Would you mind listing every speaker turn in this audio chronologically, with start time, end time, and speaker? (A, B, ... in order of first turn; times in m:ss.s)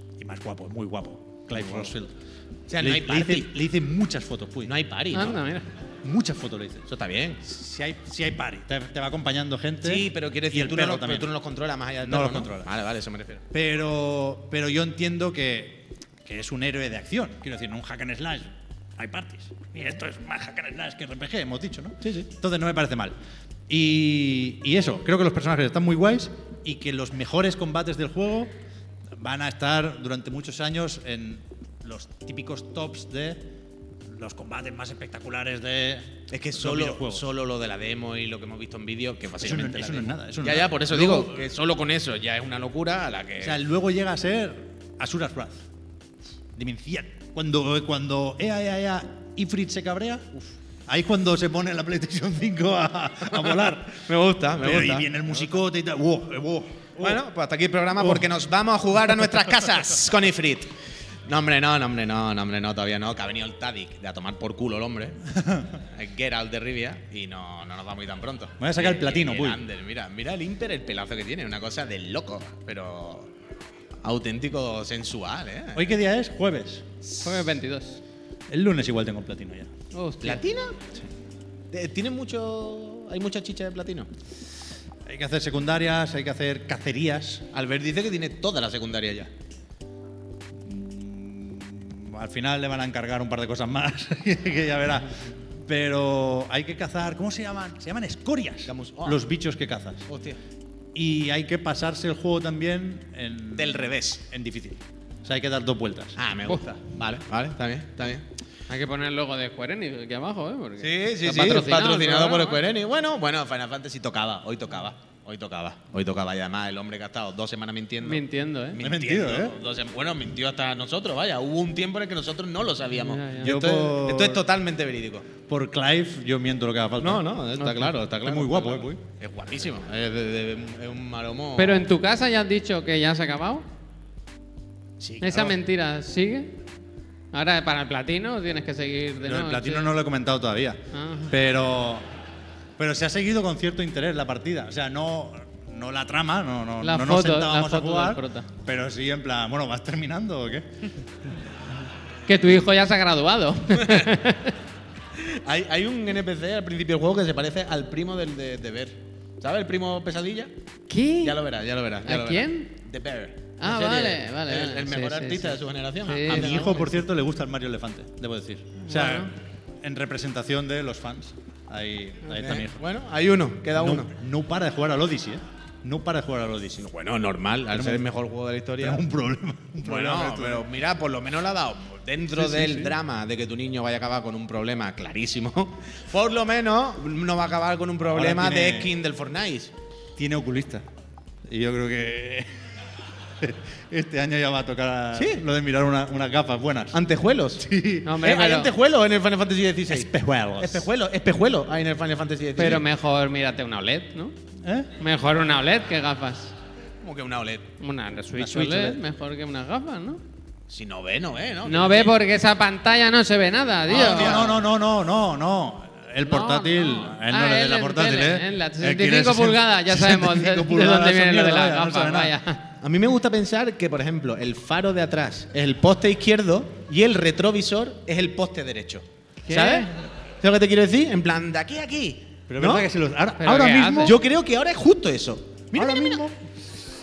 0:00.2-0:02.1 A
0:01.5-0:01.9 B
0:02.7-0:03.5 B
0:02.8-0:04.7 A
0:04.6-0:05.4 B
0:05.1-0:05.6 C
0:06.0-0:06.8 A
0:06.9-0:07.4 B
0:07.4-0:11.3 A
0:09.8-0:13.4 B
0:12.0-0:12.7 A
0:13.5-0:23.1 A
0:22.0-0:22.3 B
0:23.7-0:28.5 A
0:29.2-0:33.4 A
0:34.1-0:37.2 A
0:36.3-0:43.6 B
0:39.4-0:41.5 A
0:43.4-0:45.6 A
0:46.6-0:54.0 A
0:53.3-0:55.5 B
0:54.6-0:57.2 A
0:57.0-1:00.7 B
1:01.2-1:05.2 B
1:05.8-1:13.3 B
1:08.6-1:09.6 A
1:14.0-1:15.8 B
1:15.7-1:16.8 A
1:17.0-1:17.4 B
1:17.2-1:18.0 C
1:18.5-1:19.7 A
1:19.9-1:20.4 C
1:20.2-1:20.8 B
1:21.7-1:24.1 B
1:25.1-1:27.4 A
1:27.5-1:29.3 B
1:30.6-1:40.1 A
1:38.6-1:39.2 B
1:40.1-1:40.4 B
1:40.9-1:46.2 A
1:43.6-1:44.2 B
1:46.2-1:48.2 B
1:48.7-1:52.6 C
1:50.8-2:05.3 B
1:58.0-1:58.8 C
1:58.8-1:59.5 A
2:03.0-2:03.5 C
2:03.4-2:04.4 A
2:05.5-2:09.0 A
2:07.0-2:11.8 B
2:11.6-2:13.6 C
2:15.0-2:15.6 A
2:15.2-2:16.5 C
2:17.3-2:19.9 C
2:19.2-2:22.0 A
2:20.9-2:21.3 C
2:22.8-2:30.6 A
2:26.8-2:28.5 C
2:32.3-2:34.5 C
2:35.2-2:40.5 B
2:40.9-2:41.4 C
2:41.2-2:47.0 B
2:42.0-2:42.7 C
2:43.6-2:46.7 C
2:46.2-2:49.3 A
2:48.8-2:49.3 C
2:49.8-2:52.8 A
2:52.4-2:54.1 B
2:53.7-2:56.8 A
2:56.8-2:59.0 B
2:57.7-2:58.0 A
2:58.8-3:00.6 A
2:59.8-3:09.7 B
3:02.3-3:02.9 A
3:08.1-3:08.9 A
3:10.2-3:10.8 A
3:11.5-3:12.5 A
3:13.4-3:17.0 A
3:15.1-3:15.4 B
3:16.9-3:17.6 B
3:17.6-3:18.1 A
3:18.0-3:18.7 C
3:18.2-3:22.8 B
3:19.9-3:20.9 A
3:22.6-3:24.3 C
3:24.6-3:24.9 A
3:25.0-3:26.5 C
3:27.0-3:27.7 B
3:27.8-3:30.2 C
3:28.4-3:29.0 A
3:30.7-3:32.1 B
3:31.6-3:34.5 C
3:33.9-3:42.3 A
3:33.9-3:34.5 B
3:36.2-3:42.6 C
3:42.8-3:49.9 B
3:49.4-3:49.9 C
3:50.4-3:52.9 B
3:52.5-3:54.2 A
3:53.4-3:54.1 C
3:54.0-3:56.2 B
3:55.7-3:56.4 A